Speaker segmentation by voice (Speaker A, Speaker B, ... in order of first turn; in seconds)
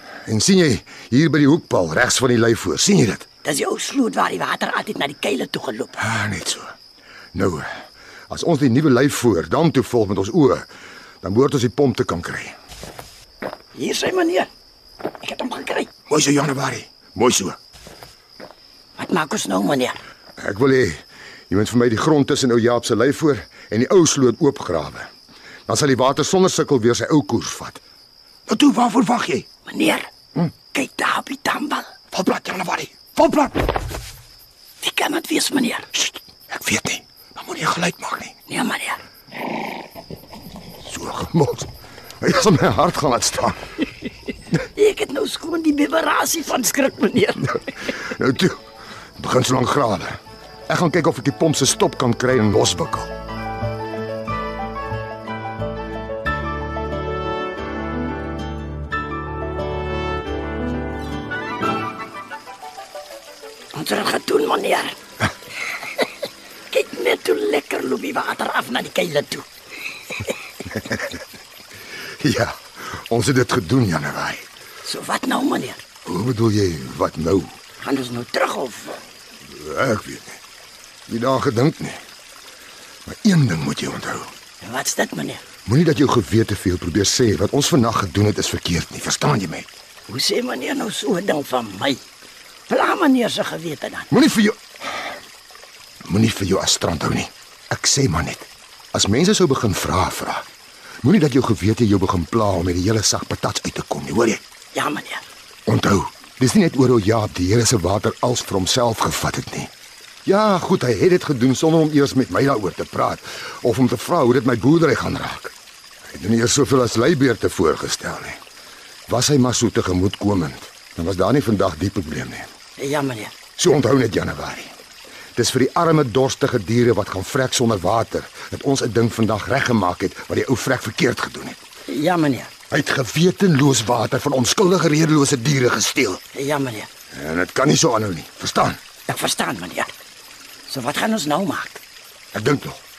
Speaker A: 0.3-3.3, 6.0-6.7, 7.3-7.7, 8.3-10.7, 11.2-12.6, 16.1-17.6, 20.4-25.1, 25.7-27.8, 28.5-29.5, 32.1-33.7, 36.0-38.3, 40.8-41.7, 42.2-43.6, 48.0-48.6, 49.2-50.2, 50.7-53.1, 72.2-74.5, 76.0-77.5, 79.5-80.4, 81.1-82.0, 83.1-84.3, 85.7-89.7, 94.1-94.6, 96.0-100.5, 101.0-104.4, 105.7-109.7, 110.2-115.5, 116.1-118.4, 119.1-122.5, 123.6-124.7, 125.4-131.6, 132.7-136.2, 137.1-138.8, 142.3-142.8
Speaker B: 3.4-6.0, 13.8-14.5, 15.2-15.9, 19.0-20.0, 29.7-30.1, 30.6-31.9, 34.8-35.9, 38.5-39.0, 44.7-47.6, 63.8-65.0, 66.7-69.5, 74.8-75.8, 77.8-79.0, 84.6-85.4, 90.1-92.0, 92.7-94.1, 104.7-105.3, 122.8-123.3, 131.9-132.5, 136.3-136.9, 139.1-139.9, 140.7-141.8